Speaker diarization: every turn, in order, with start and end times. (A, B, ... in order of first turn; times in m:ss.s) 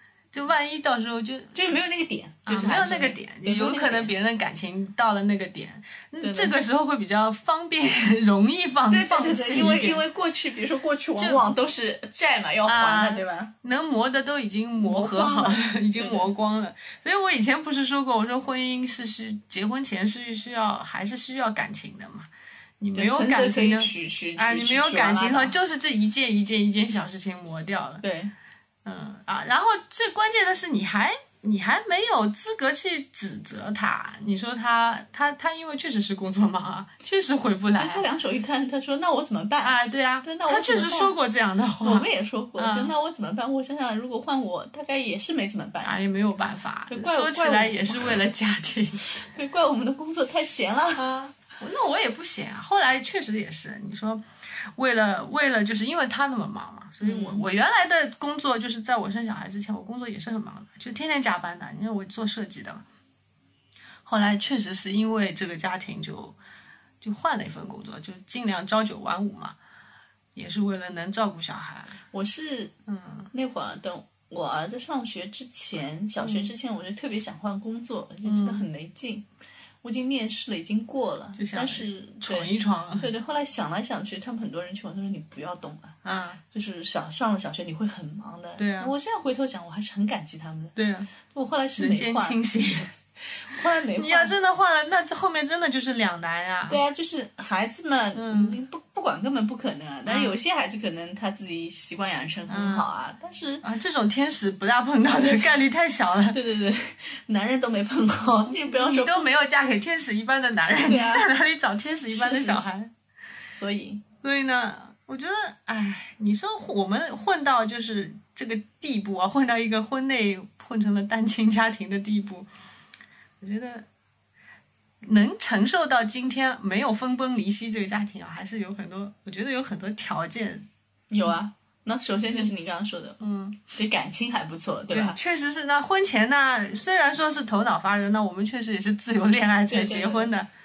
0:00.3-0:01.6 A
0:01.5-0:04.1 B
0:02.5-0:10.0 A
0:06.2-0:06.5 B
0:08.9-0:13.5 B
0:11.2-0:11.5 A
0:12.6-0:22.3 A
0:14.8-0:16.3 B
0:22.8-0:28.0 A
0:22.9-0:25.5 B
0:28.0-0:28.3 B
0:28.8-0:38.0 A
0:37.8-0:41.1 B
0:39.6-0:42.9 A
0:41.8-0:46.0 B
0:45.8-0:49.0 A
0:46.9-0:48.2 B
0:49.1-0:51.2 B
0:51.0-0:54.2 A
0:54.8-1:02.8 A
0:57.0-0:57.4 B
1:04.0-1:06.4 A
1:07.0-1:09.5 A
1:10.3-1:12.0 A
1:12.1-1:12.7 B
1:12.9-1:13.3 A
1:13.3-1:19.2 B
1:16.2-1:16.5 A
1:18.2-1:18.6 A
1:19.8-1:26.0 B
1:21.4-1:23.1 A
1:26.0-1:26.4 A
1:26.5-1:30.8 B
1:28.6-1:28.9 A
1:30.8-1:31.1 A
1:31.3-1:32.8 B
1:31.8-1:32.9 A
1:33.4-1:34.3 B
1:34.0-1:36.8 A
1:36.7-1:43.6 B
1:38.2-1:38.6 A
1:40.0-1:40.4 A
1:42.5-1:42.9 A
1:43.6-1:46.4 A
1:46.3-1:49.3 B
1:48.6-1:52.9 A
1:50.8-1:51.3 B
1:52.1-1:52.7 B
1:53.5-1:54.0 B
1:54.2-2:02.5 A
2:03.4-2:03.8 A
2:05.0-2:10.7 A
2:11.1-2:13.2 B
2:13.2-2:13.7 A
2:13.7-2:15.2 B
2:14.9-2:20.5 A
2:19.7-2:20.3 B